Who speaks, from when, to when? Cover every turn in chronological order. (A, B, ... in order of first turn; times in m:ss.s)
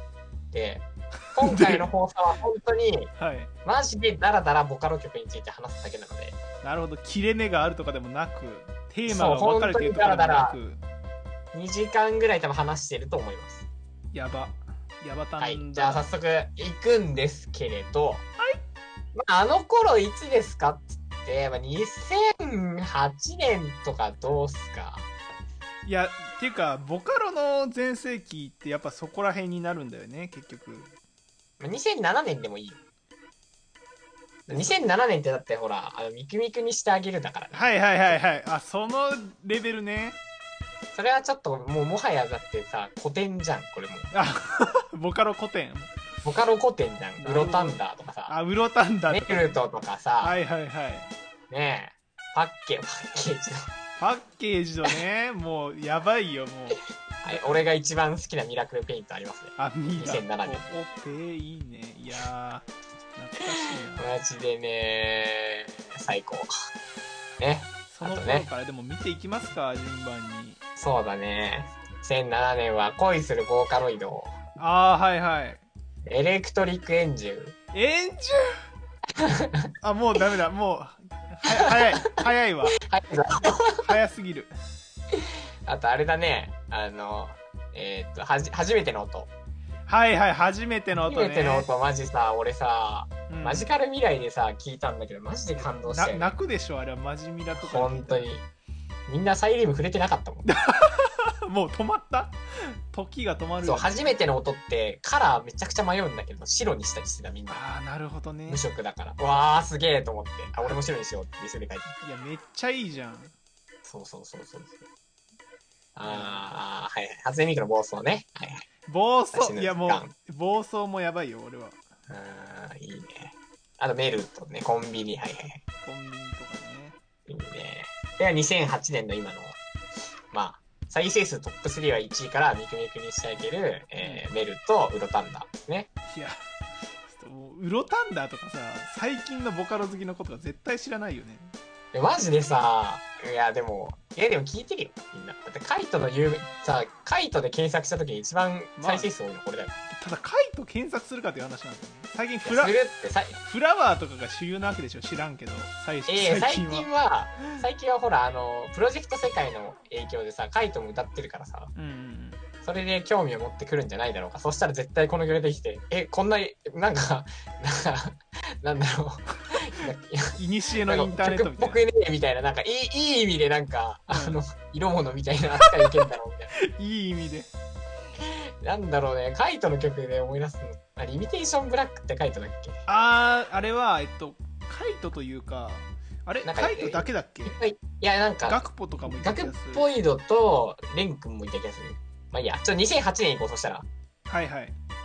0:00.5-0:03.1 A
0:01.4-0:01.9 B
0:03.2-0:03.5 B
0:03.6-0:06.4 A
0:06.6-0:10.8 B
0:09.0-0:10.6 A
0:11.5-0:13.6 A
0:14.1-0:16.1 B
0:15.4-0:18.2 A
0:19.1-0:25.1 A
0:25.8-0:30.9 B
0:31.6-0:32.8 A
0:34.5-0:38.1 A
0:34.5-0:34.8 B
0:37.5-0:40.2 B
0:40.9-0:44.1 A
0:44.1-0:45.9 B
0:46.2-0:48.3 A
0:47.2-0:49.6 B
0:49.1-0:50.3 A
0:50.2-0:51.1 B
0:51.5-0:53.7 A
0:54.0-0:57.6 B
0:57.2-1:00.7 A
0:59.6-1:04.2 B
1:03.9-1:06.5 A
1:07.4-1:08.5 A
1:07.9-1:10.6 B
1:10.8-1:14.4 A
1:14.6-1:15.6 B
1:16.0-1:17.5 A
1:17.7-1:18.6 B
1:19.2-1:19.7 A
1:19.8-1:22.8 B
1:22.8-1:23.8 A
1:23.7-1:24.5 B
1:25.1-1:29.3 A
1:29.9-1:31.7 B
1:30.9-1:36.3 A
1:33.3-1:33.7 B
1:35.6-1:38.3 B
1:37.5-1:38.4 A
1:39.1-1:40.5 A
1:40.4-1:44.2 B
1:43.6-1:47.6 A
1:47.5-1:48.6 B
1:48.5-1:51.9 A
1:52.0-1:53.3 B
1:53.8-1:54.8 A
1:55.9-1:58.6 A
1:56.0-1:56.5 B
1:58.9-2:01.8 B
1:59.3-2:00.1 A
2:02.1-2:05.6 A
2:05.8-2:07.0 B
2:07.3-2:09.6 A
2:10.3-2:15.9 A
2:14.0-2:14.3 B
2:16.1-2:16.4 B
2:17.0-2:21.5 B
2:21.9-2:29.7 A
2:28.8-2:29.1 B
2:29.9-2:32.8 B
2:32.4-2:33.4 A
2:33.4-2:36.9 B
2:36.1-2:41.7 A
2:41.7-2:42.4 B
2:42.6-2:56.5 A
2:50.3-2:51.8 B
2:54.1-2:54.4 B
2:55.6-2:57.5 B
2:58.2-3:02.8 A
3:02.9-3:07.6 B
3:06.4-3:13.8 A
3:08.4-3:09.9 B
3:14.3-3:14.8 B